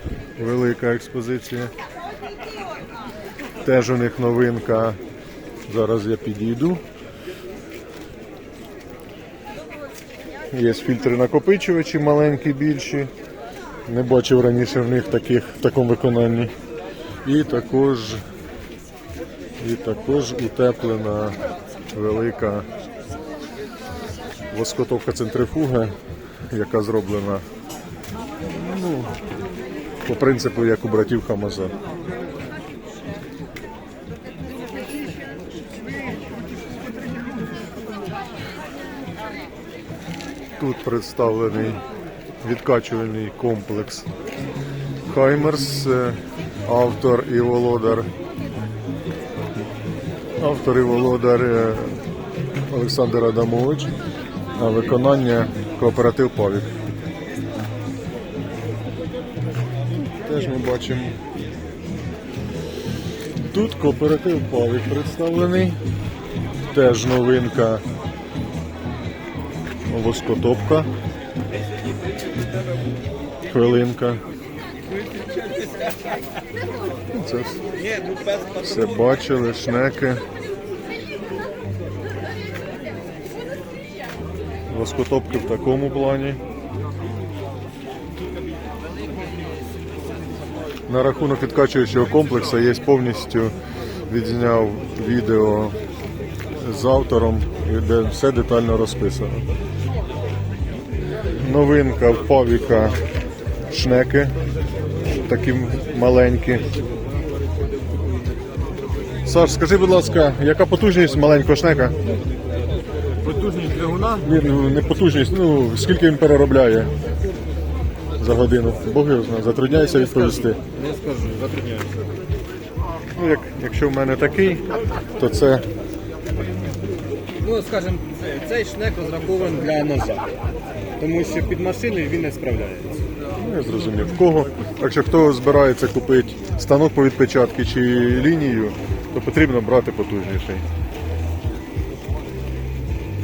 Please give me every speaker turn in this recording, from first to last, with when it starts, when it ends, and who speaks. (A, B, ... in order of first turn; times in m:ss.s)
0:00.4-0:01.7 A
0:03.6-0:05.0 A
0:05.6-0:06.8 A
0:10.5-0:13.1 A
0:13.8-0:16.5 A
0:17.2-0:18.2 A
0:19.6-0:21.4 A
0:21.9-0:22.7 A
0:24.5-0:25.9 A
0:26.5-0:27.4 A
0:28.5-0:29.2 A
0:30.0-0:31.7 A
0:40.6-0:41.8 A
0:42.4-0:44.1 A
0:45.1-0:48.1 A
0:50.4-0:52.0 A
0:52.7-0:53.9 A
0:54.5-0:56.8 A
1:00.0-1:01.2 A
1:03.5-1:05.8 A
1:06.7-1:07.8 A
1:09.8-1:10.9 A
1:13.4-1:14.2 A
1:17.1-1:17.6 A
1:18.0-1:18.3 B
1:18.6-1:20.2 A
1:24.7-1:26.4 A
1:30.9-1:33.5 A
1:34.1-1:35.8 A
1:36.5-1:39.4 A
1:41.3-1:43.0 A
1:43.7-1:44.4 A
1:45.1-1:46.7 A
1:49.2-1:52.0 A
1:53.2-1:54.2 B
1:54.2-1:56.9 A
1:58.2-2:00.6 A
2:00.6-2:02.0 B
2:03.2-2:05.7 A
2:07.4-2:10.3 B
2:11.0-2:13.0 B
2:13.4-2:20.6 A